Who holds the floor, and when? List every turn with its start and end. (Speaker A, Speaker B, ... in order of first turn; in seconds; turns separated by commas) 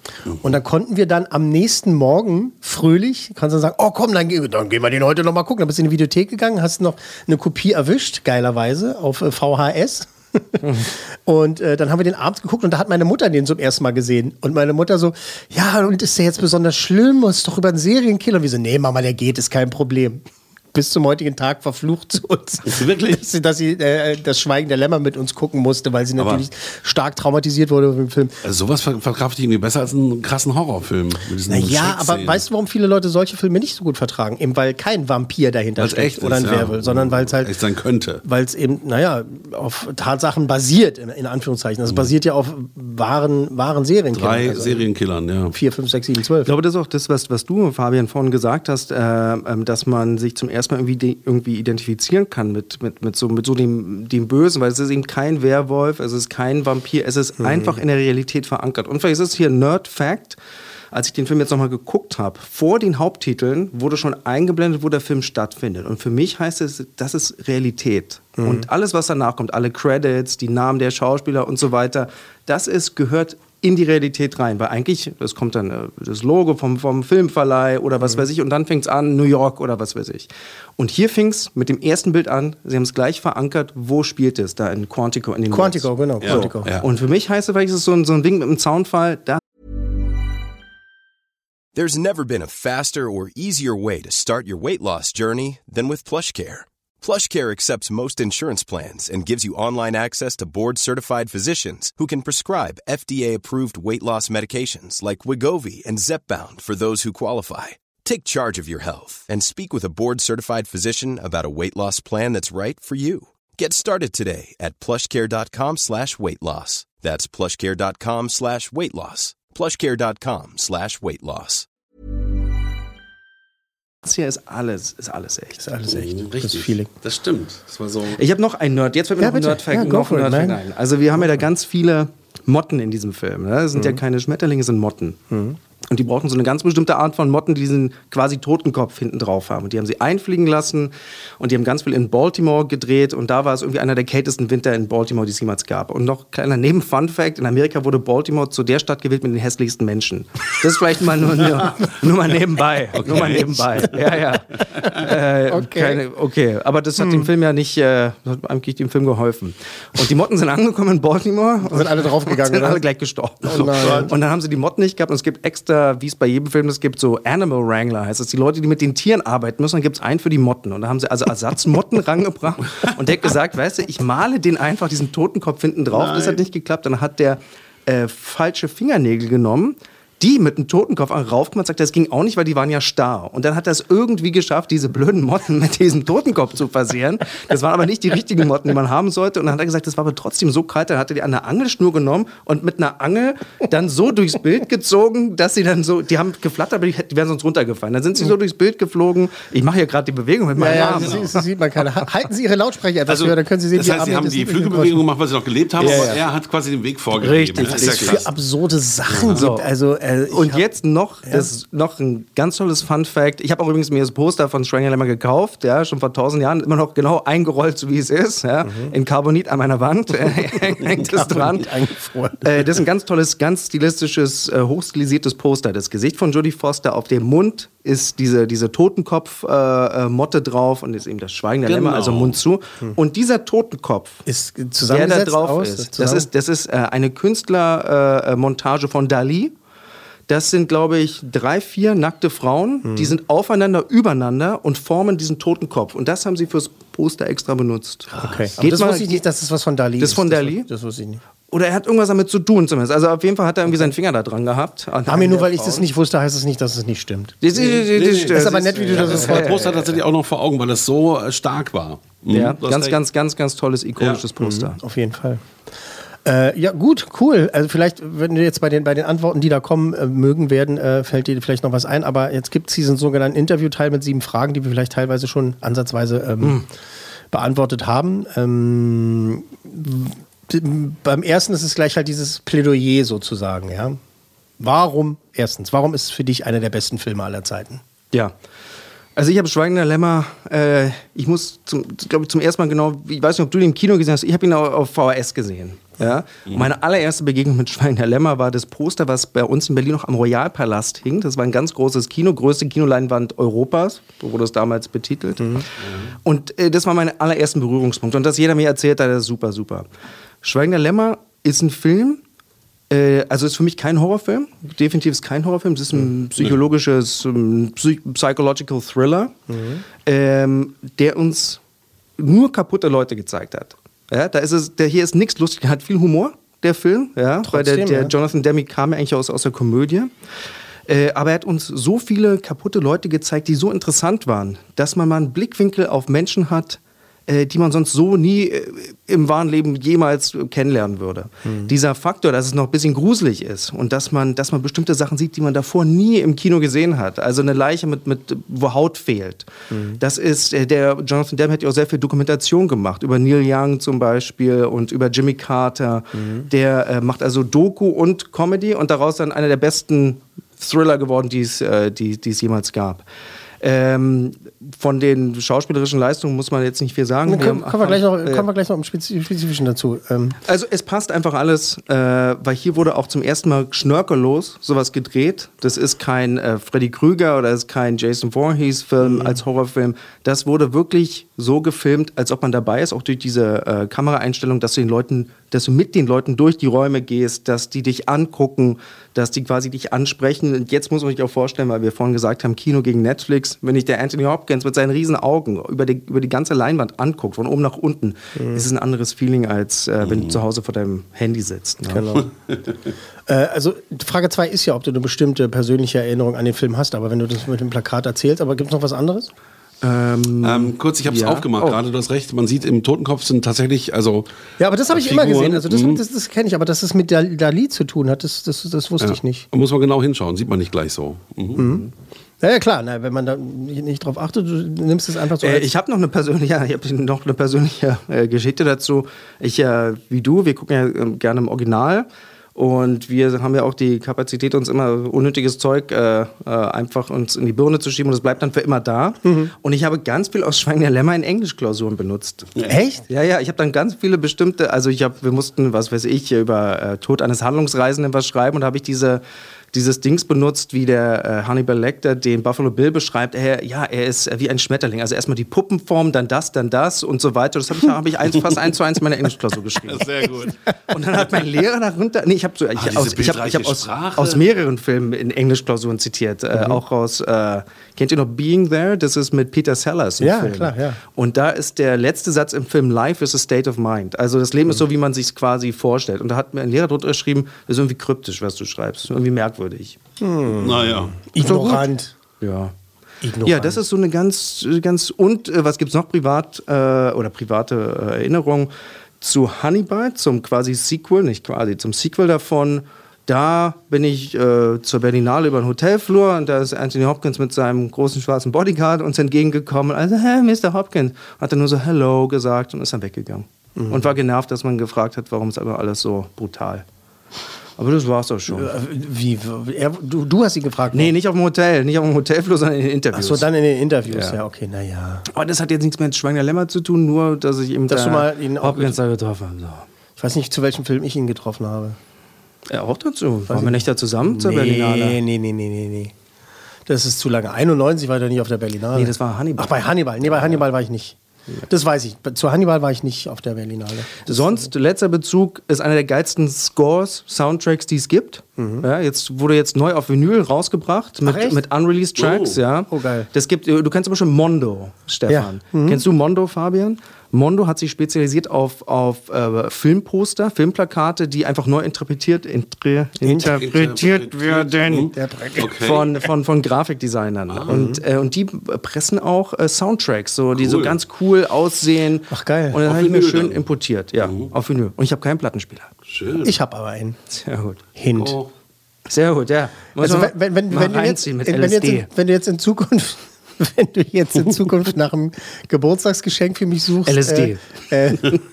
Speaker A: 0.4-20.2, Speaker B: 10.6-10.9, Speaker A: 20.7-28.4, Speaker C: 22.6-23.2, Speaker C: 26.2-26.4, Speaker C: 28.4-32.4, Speaker A: 31.5-37.5, Speaker C: 35.8-38.2, Speaker A: 38.2-44.8, Speaker C: 44.1-45.5, Speaker A: 45.5-46.5, Speaker B: 46.5-60.4, Speaker A: 57.4-57.8, Speaker B: 60.9-89.4, Speaker A: 68.4-68.7, Speaker A: 85.5-86.7, Speaker C: 86.2-86.8, Speaker D: 91.7-121.7, Speaker B: 124.0-125.6, Speaker A: 125.6-126.9, Speaker C: 125.9-128.2, Speaker B: 128.2-135.2, Speaker A: 129.2-130.6, Speaker A: 133.7-134.0, Speaker A: 135.3-135.6, Speaker B: 135.9-201.4, Speaker C: 153.0-153.9, Speaker A: 155.5-156.0, Speaker A: 157.0-157.3, Speaker A: 161.7-162.8, Speaker A: 163.4-164.1, Speaker C: 163.5-164.1, Speaker C: 175.9-176.4, Speaker A: 200.6-205.0, Speaker C: 200.6-201.3, Speaker C: 203.2-208.3, Speaker B: 205.8-206.2, Speaker A: 205.8-206.2, Speaker B: 207.2-208.2, Speaker A: 207.6-210.6, Speaker C: 209.1-209.4, Speaker B: 209.3-209.7, Speaker B: 210.3-221.7, Speaker A: 211.2-211.5, Speaker A: 218.6-218.9, Speaker A: 220.7-222.6, Speaker B: 222.4-234.2, Speaker C: 231.7-232.4, Speaker A: 234.3-236.3, Speaker B: 234.9-239.5, Speaker B: 240.3-249.2, Speaker A: 242.8-243.2, Speaker A: 248.2-251.2, Speaker B: 250.0-250.7, Speaker B: 251.5-255.9, Speaker A: 255.1-259.9, Speaker B: 257.4-259.8, Speaker C: 257.9-263.0, Speaker B: 262.3-264.8, Speaker A: 264.4-265.4, Speaker A: 266.2-276.6, Speaker A: 277.3-284.0, Speaker A: 284.6-287.8, Speaker B: 289.1-305.7, Speaker B: 306.2-309.9, Speaker B: 310.4-312.2, Speaker B: 312.9-319.4, Speaker A: 319.5-319.8, Speaker B: 320.1-321.6, Speaker B: 322.2-330.1, Speaker A: 327.5-328.1, Speaker B: 330.9-363.0, Speaker A: 341.4-341.7, Speaker A: 349.7-350.0, Speaker A: 356.1-356.5, Speaker B: 363.6-368.4, Speaker A: 367.3-370.4, Speaker B: 370.4-402.1, Speaker A: 379.0-379.4, Speaker A: 398.4-398.6, Speaker C: 400.0-400.4, Speaker A: 401.9-402.3, Speaker A: 403.3-409.3, Speaker B: 409.8-411.8, Speaker C: 410.4-414.3, Speaker A: 414.6-419.5, Speaker C: 414.9-416.0, Speaker C: 419.0-421.6, Speaker A: 421.6-421.9, Speaker A: 422.4-425.7, Speaker B: 425.4-442.5, Speaker A: 439.2-439.5, Speaker A: 442.7-443.0, Speaker B: 443.1-449.2, Speaker B: 449.7-460.1, Speaker C: 459.9-460.6, Speaker B: 460.9-480.0, Speaker C: 462.8-464.4, Speaker A: 470.2-471.0, Speaker A: 480.2-482.1, Speaker C: 480.6-481.2, Speaker B: 481.4-481.8, Speaker B: 482.4-482.7, Speaker A: 483.2-483.8, Speaker B: 483.4-506.8, Speaker A: 503.8-504.1, Speaker B: 507.8-508.7, Speaker A: 508.5-511.1, Speaker B: 510.9-513.5, Speaker A: 513.1-515.3, Speaker B: 514.1-514.4, Speaker B: 515.3-519.9, Speaker A: 517.9-519.0, Speaker A: 520.2-522.0, Speaker B: 522.7-525.2, Speaker A: 523.5-526.1, Speaker A: 526.9-531.2, Speaker B: 529.0-530.6, Speaker A: 531.7-534.7, Speaker B: 534.3-555.1, Speaker A: 538.6-538.9, Speaker A: 541.2-541.6, Speaker C: 542.2-542.6, Speaker A: 542.9-543.3, Speaker A: 545.3-546.0, Speaker A: 553.2-553.6, Speaker C: 553.5-556.1, Speaker A: 555.1-555.8, Speaker B: 555.8-565.9, Speaker A: 557.7-558.0, Speaker C: 560.5-561.0, Speaker A: 562.3-562.8, Speaker C: 562.8-563.6, Speaker C: 564.2-564.5, Speaker C: 566.1-566.5, Speaker A: 566.4-567.2, Speaker B: 567.3-567.8, Speaker A: 568.0-568.4, Speaker C: 568.1-568.5, Speaker B: 569.1-572.1, Speaker A: 570.0-578.4, Speaker B: 577.0-578.4